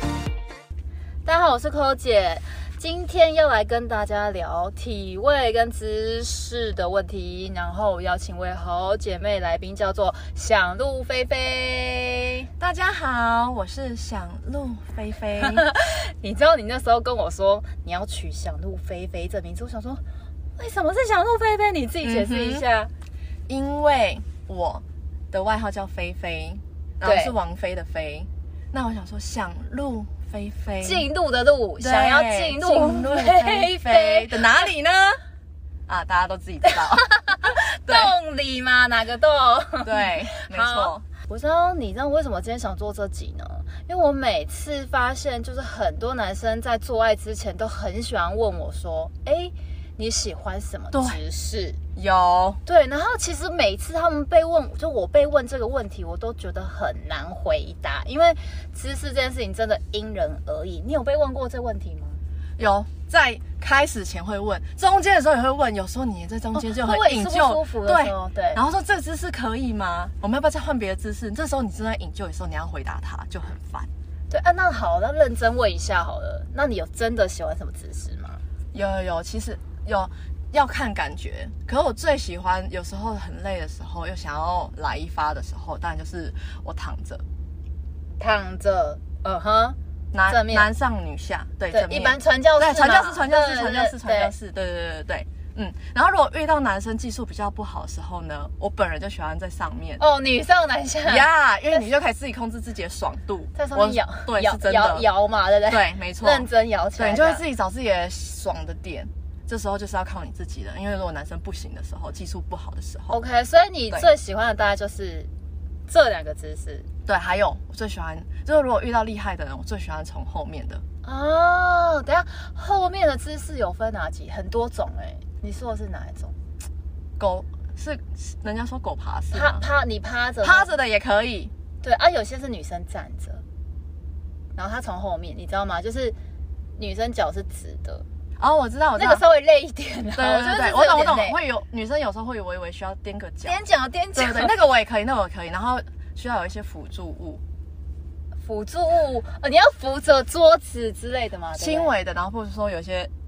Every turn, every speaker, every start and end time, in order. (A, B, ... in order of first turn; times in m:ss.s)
0:01.2-0:12.5 A
0:12.6-0:15.6 B
0:15.4-0:20.0 A
0:20.6-0:22.9 A
0:22.0-0:22.6 B
0:23.5-0:31.1 B
0:27.0-0:27.3 A
0:30.8-0:34.5 A
0:31.8-0:35.2 B
0:35.9-0:37.1 B
0:36.6-0:51.8 A
0:37.9-0:38.1 B
0:39.8-0:41.0 B
0:50.9-0:51.2 B
0:52.0-0:52.6 B
0:52.6-1:02.2 A
1:02.6-1:13.9 B
1:06.5-1:08.6 A
1:14.3-1:18.4 A
1:18.7-1:27.2 B
1:28.2-1:29.8 A
1:30.1-1:40.0 B
1:30.3-1:30.7 A
1:31.7-1:34.3 A
1:40.0-1:41.8 A
1:41.1-1:45.1 B
1:43.6-1:47.4 A
1:45.7-1:53.2 B
1:53.1-1:55.3 A
1:55.9-1:56.9 A
1:57.1-2:00.8 B
2:01.0-2:06.4 A
2:07.2-2:09.6 B
2:09.3-2:10.7 A
2:10.4-2:11.5 B
2:11.8-2:13.4 A
2:14.6-2:16.2 A
2:16.8-2:18.0 A
2:18.4-2:19.2 B
2:19.0-2:21.4 A
2:20.2-2:23.6 B
2:23.4-2:24.5 A
2:24.2-2:27.4 B
2:28.4-2:31.9 A
2:31.6-2:33.1 B